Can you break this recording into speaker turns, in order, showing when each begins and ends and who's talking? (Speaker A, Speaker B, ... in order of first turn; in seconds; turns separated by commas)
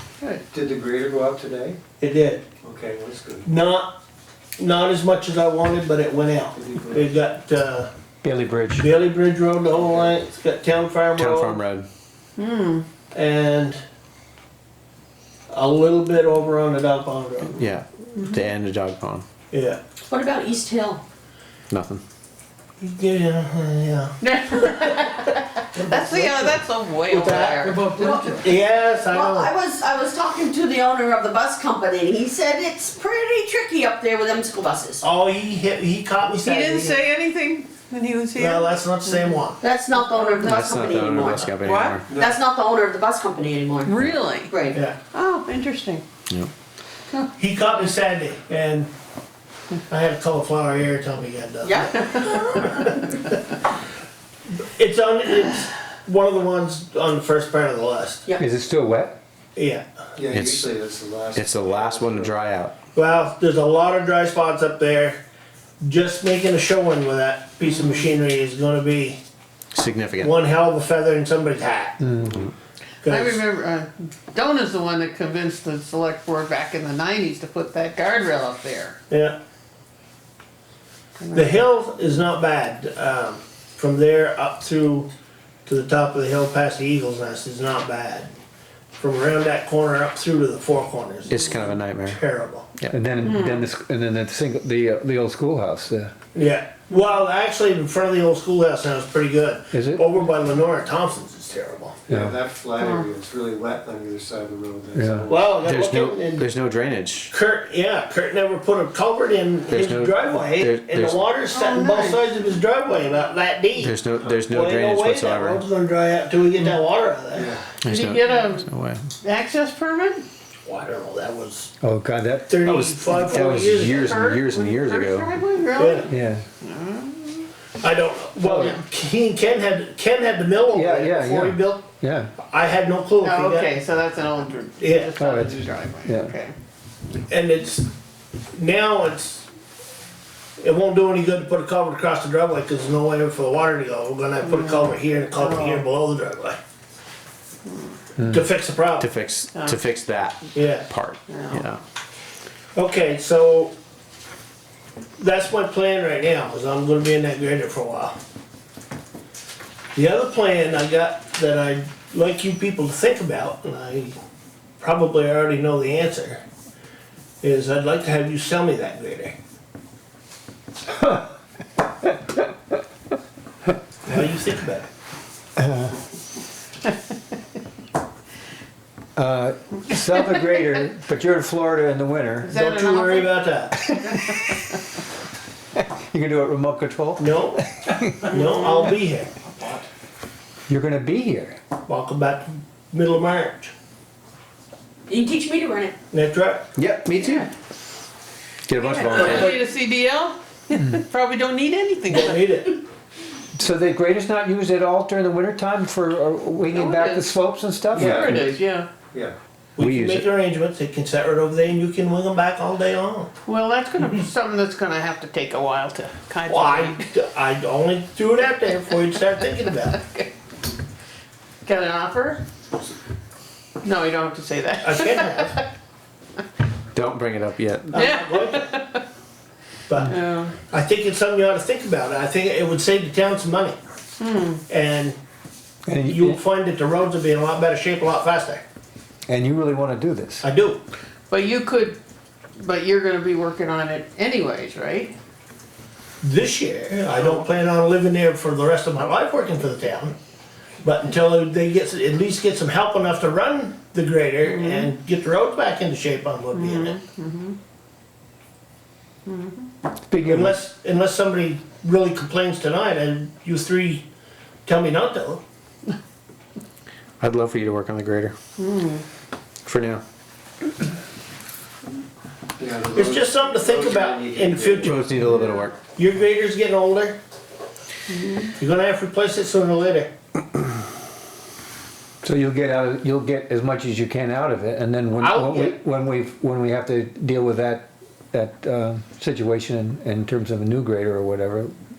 Speaker A: 0.5-1.8, Speaker B: 2.0-2.5, Speaker A: 2.6-3.5, Speaker B: 3.4-4.0, Speaker B: 4.6-7.9, Speaker A: 6.6-7.1, Speaker C: 8.2-8.9, Speaker B: 8.8-11.6, Speaker D: 11.2-11.9, Speaker E: 12.4-12.9, Speaker B: 13.1-13.8, Speaker B: 15.5-17.6, Speaker D: 17.5-19.2, Speaker B: 19.5-19.8, Speaker F: 20.1-21.0, Speaker D: 21.7-22.0, Speaker B: 22.8-25.1, Speaker E: 24.2-28.4, Speaker B: 25.7-29.6, Speaker A: 27.7-28.4, Speaker F: 27.9-28.3, Speaker F: 29.1-35.0, Speaker B: 35.0-37.0, Speaker E: 36.4-40.6, Speaker B: 38.4-39.7, Speaker F: 39.9-41.5, Speaker D: 40.4-42.1, Speaker E: 41.6-42.0, Speaker A: 42.1-42.4, Speaker F: 42.3-44.0, Speaker E: 43.8-44.6, Speaker F: 44.5-44.8, Speaker E: 45.1-46.0, Speaker B: 47.4-48.9, Speaker B: 49.9-53.2, Speaker F: 51.7-52.4, Speaker B: 54.7-58.3, Speaker C: 58.4-59.2, Speaker B: 59.6-59.9, Speaker A: 60.2-62.4, Speaker D: 60.3-60.7, Speaker D: 61.3-62.7, Speaker B: 62.9-65.2, Speaker B: 65.8-69.2, Speaker D: 69.7-70.3, Speaker B: 70.2-72.0, Speaker C: 72.0-72.4, Speaker B: 73.0-73.4, Speaker E: 73.0-79.0, Speaker B: 79.1-79.4, Speaker E: 81.2-81.6, Speaker B: 81.3-85.1, Speaker B: 85.7-88.3, Speaker B: 89.0-92.7, Speaker D: 91.3-92.2, Speaker C: 92.9-96.1, Speaker E: 93.2-93.7, Speaker B: 96.3-102.0, Speaker C: 99.7-100.1, Speaker A: 102.1-105.6, Speaker C: 102.1-102.3, Speaker E: 102.8-103.1, Speaker C: 105.0-105.3, Speaker B: 105.3-106.5, Speaker D: 105.6-107.3, Speaker B: 107.3-114.0, Speaker D: 109.7-111.3, Speaker E: 111.5-112.3, Speaker D: 113.8-115.6, Speaker A: 114.2-114.6, Speaker B: 114.5-117.6, Speaker A: 117.3-117.6, Speaker D: 117.8-119.0, Speaker E: 117.8-118.7, Speaker E: 119.2-120.2, Speaker B: 120.7-121.7, Speaker C: 121.8-122.7, Speaker B: 122.5-124.2, Speaker D: 122.6-125.3, Speaker E: 123.8-127.5, Speaker B: 125.8-126.1, Speaker C: 126.1-126.5, Speaker B: 127.8-131.9, Speaker C: 128.4-128.8, Speaker C: 130.7-132.3, Speaker B: 132.4-133.7, Speaker E: 133.2-136.6, Speaker B: 134.8-135.1, Speaker C: 135.2-136.3, Speaker B: 137.3-137.9, Speaker B: 138.5-139.5, Speaker B: 140.6-146.6, Speaker E: 144.4-145.9, Speaker B: 148.2-149.1, Speaker D: 149.0-151.8, Speaker E: 149.5-149.8, Speaker B: 150.6-150.9, Speaker E: 151.3-151.7, Speaker B: 152.8-153.7, Speaker B: 155.2-158.2, Speaker B: 159.9-164.2, Speaker B: 164.8-166.4, Speaker B: 167.4-169.4, Speaker B: 174.1-174.9, Speaker C: 175.6-175.9, Speaker C: 179.2-182.6, Speaker E: 182.4-183.4, Speaker B: 182.4-183.8, Speaker C: 183.9-184.4, Speaker E: 184.1-184.6, Speaker C: 185.8-188.3, Speaker B: 187.2-187.6, Speaker B: 188.2-189.3, Speaker E: 188.3-188.8, Speaker C: 190.7-191.6, Speaker B: 191.9-193.7, Speaker F: 195.1-195.9, Speaker B: 196.1-196.7, Speaker C: 196.8-197.5, Speaker C: 198.7-199.6, Speaker E: 198.8-202.4, Speaker B: 202.1-202.8, Speaker C: 203.6-208.5, Speaker E: 206.7-208.9, Speaker B: 208.0-208.5, Speaker A: 208.0-208.4, Speaker B: 209.8-213.3, Speaker C: 209.8-210.3, Speaker E: 213.4-217.1, Speaker B: 216.5-220.0, Speaker E: 219.7-220.3, Speaker E: 221.6-222.4, Speaker E: 223.8-225.7, Speaker B: 224.8-225.6, Speaker D: 226.9-227.9, Speaker B: 227.9-228.8, Speaker E: 227.9-229.0, Speaker B: 229.9-233.8, Speaker E: 230.0-230.6, Speaker E: 234.2-234.6, Speaker B: 234.7-235.2, Speaker C: 235.9-236.4, Speaker B: 236.0-238.6, Speaker C: 239.3-240.5, Speaker B: 240.4-240.8, Speaker E: 241.3-242.0, Speaker E: 242.6-245.2, Speaker B: 246.2-250.2, Speaker E: 247.2-247.4, Speaker B: 250.8-257.0, Speaker E: 254.4-254.9, Speaker E: 256.5-257.6, Speaker E: 259.3-259.7, Speaker C: 260.1-260.6, Speaker B: 260.2-264.1, Speaker B: 264.7-265.4, Speaker D: 267.2-268.4, Speaker E: 268.6-269.1, Speaker D: 269.6-270.0, Speaker A: 272.6-275.1, Speaker B: 272.9-275.1, Speaker D: 274.8-275.8, Speaker B: 275.9-277.2, Speaker E: 278.1-278.5, Speaker B: 278.6-280.1, Speaker C: 282.2-291.7, Speaker B: 285.2-285.8